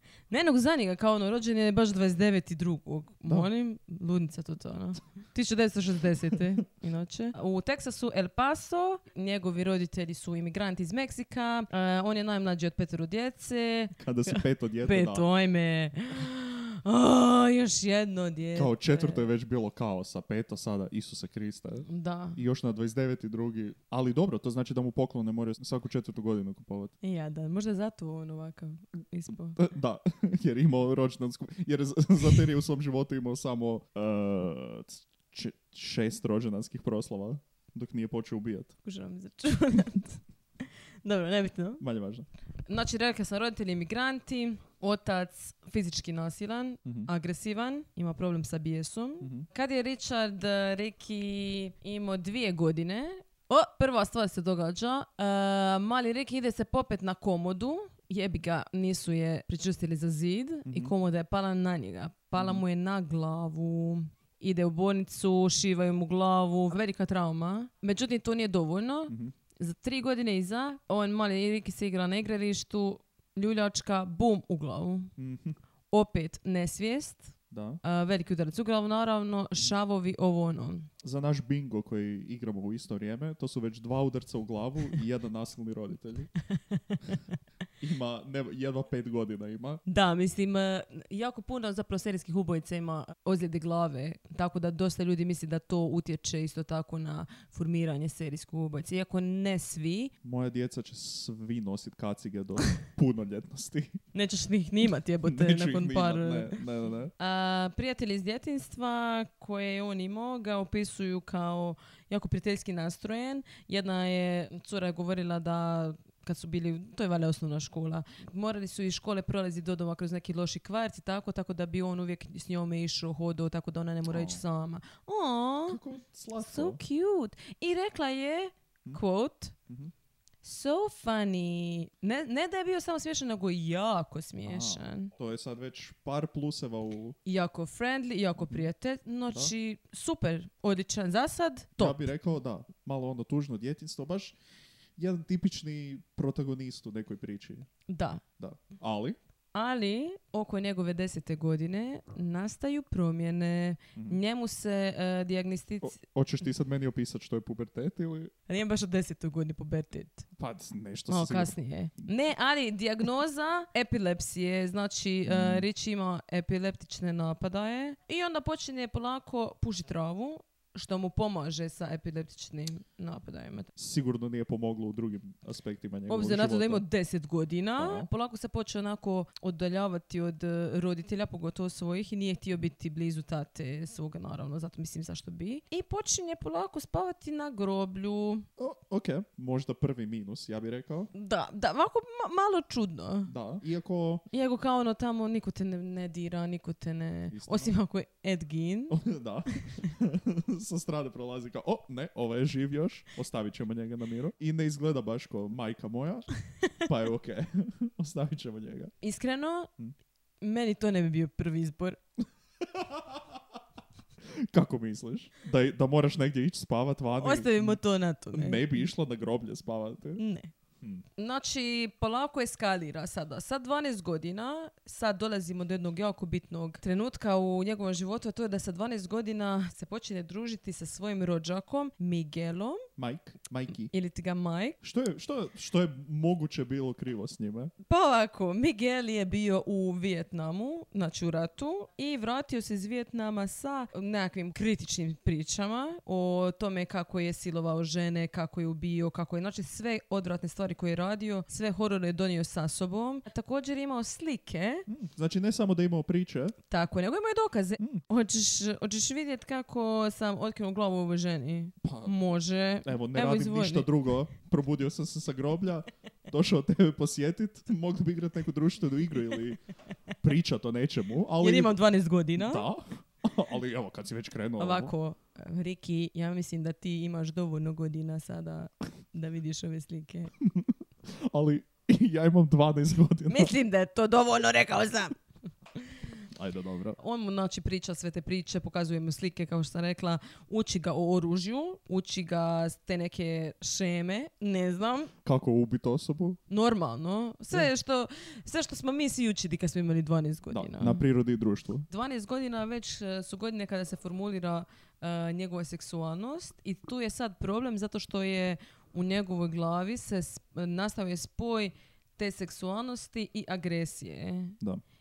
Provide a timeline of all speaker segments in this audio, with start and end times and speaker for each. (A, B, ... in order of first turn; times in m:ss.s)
0:00.3-0:19.3 A
0:14.0-0:15.3 B
0:18.5-0:26.9 B
0:21.9-0:22.4 A
0:27.0-0:29.6 A
0:29.5-0:38.7 B
0:38.8-0:40.2 A
0:41.0-0:41.8 A
0:41.8-0:42.3 B
0:42.7-1:15.1 A
0:49.2-0:49.4 B
1:00.6-1:00.9 B
1:02.3-1:02.6 B
1:09.1-1:09.3 B
1:15.2-1:15.6 B
1:15.9-1:20.9 A
1:17.5-1:17.8 B
1:21.0-1:26.3 B
1:26.7-1:27.3 A
1:27.8-1:29.8 B
1:29.8-1:40.1 A
1:40.2-1:44.0 B
1:44.1-1:46.6 A
1:45.2-1:47.1 B
1:47.2-2:05.8 A
2:04.1-2:04.4 B
2:05.7-2:06.8 B
2:06.4-2:09.5 A
2:10.4-2:15.1 A
2:14.4-2:17.2 B
2:17.2-2:22.1 A
2:21.8-2:24.4 B
2:25.0-2:27.7 B
2:27.9-2:28.2 A
2:28.4-2:29.2 B
2:29.5-2:36.0 A
2:35.8-2:38.3 B
2:38.5-2:40.3 A
2:40.4-2:41.5 B
2:41.1-2:53.7 A
2:45.2-2:45.7 B
2:53.8-2:56.8 B
2:56.1-3:08.5 A
2:57.8-2:58.1 B
3:08.6-3:11.1 B
3:11.1-3:13.3 A
3:13.2-3:14.2 B
3:14.3-3:19.0 A
3:17.3-3:17.7 B
3:18.9-3:28.9 B
3:29.0-3:29.7 A
3:30.4-3:32.0 A
3:32.6-3:33.2 B
3:34.4-3:37.8 B
3:37.2-3:38.8 A
3:38.3-3:40.2 B
3:40.2-3:40.5 A
3:41.2-3:52.8 A
3:53.0-3:53.9 B
3:53.9-3:54.8 A
3:54.8-3:57.7 B
3:57.9-4:14.8 A
4:14.9-4:16.6 B
4:16.7-4:23.9 A
4:21.8-4:22.1 B
4:22.8-4:29.6 B
4:30.2-4:31.8 B
4:31.4-4:32.7 A
4:32.4-4:34.9 B
4:34.6-4:40.3 A
4:40.4-4:43.5 B
4:43.3-4:45.2 A
4:46.3-4:47.0 B
4:47.0-4:55.1 A
4:55.2-4:56.4 B
4:56.5-5:01.0 A
5:00.5-5:01.8 B
5:01.9-5:14.6 A